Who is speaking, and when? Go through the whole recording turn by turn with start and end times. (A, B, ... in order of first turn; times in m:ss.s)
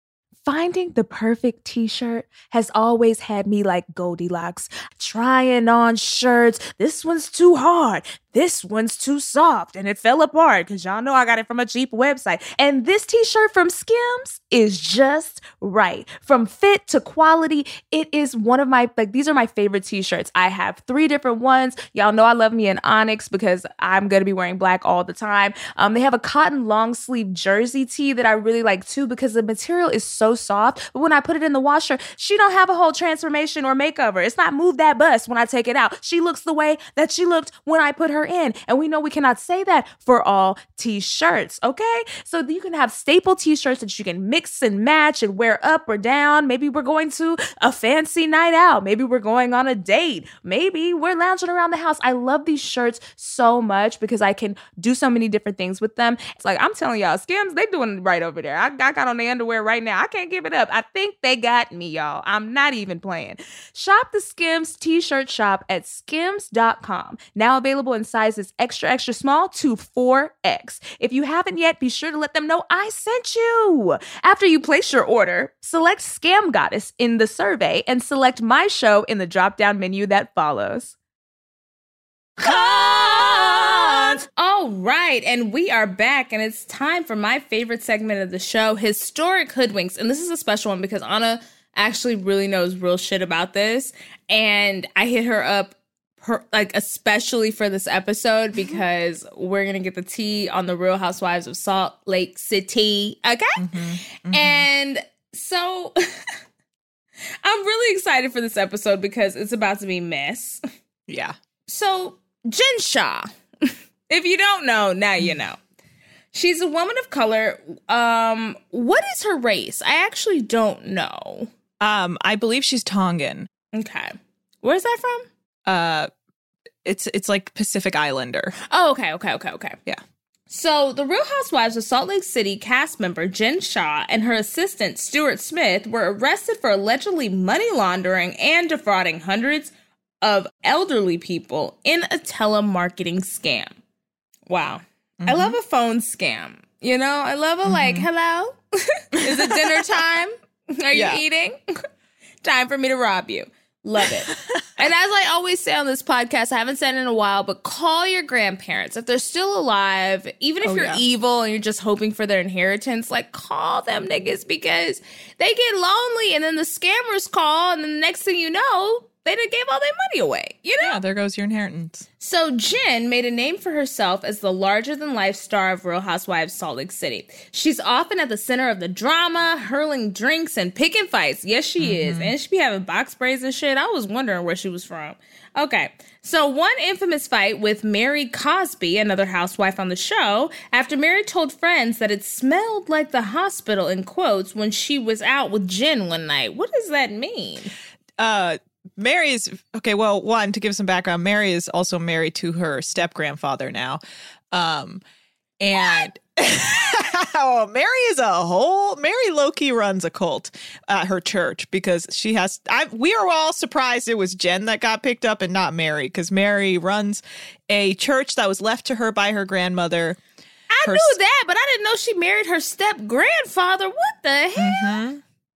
0:00.5-1:20.9 A
1:22.4-1:46.0 A
1:43.6-1:44.7 B
1:47.4-1:50.6 A
1:51.1-1:51.4 B
1:51.7-1:55.6 A
1:56.3-2:01.5 A
2:01.8-2:03.5 B
2:03.7-2:05.2 A
2:05.7-2:06.1 B
2:06.8-2:08.6 B
2:08.7-2:09.8 A
2:10.5-2:19.7 A
2:20.2-2:23.7 A
2:24.5-2:31.6 A
2:25.2-2:25.6 B
2:27.7-2:28.1 B
2:29.2-2:29.8 B
2:30.9-2:31.2 B
2:32.4-2:51.0 A
2:34.0-2:34.6 B
2:40.6-2:41.0 B
2:50.8-2:52.1 B
2:52.2-3:17.7 A
3:01.8-3:02.3 B
3:18.2-3:24.0 B
3:24.5-3:25.0 B
3:25.6-3:40.2 B
3:40.7-3:45.0 A
3:40.8-3:41.2 B
3:44.6-3:45.2 B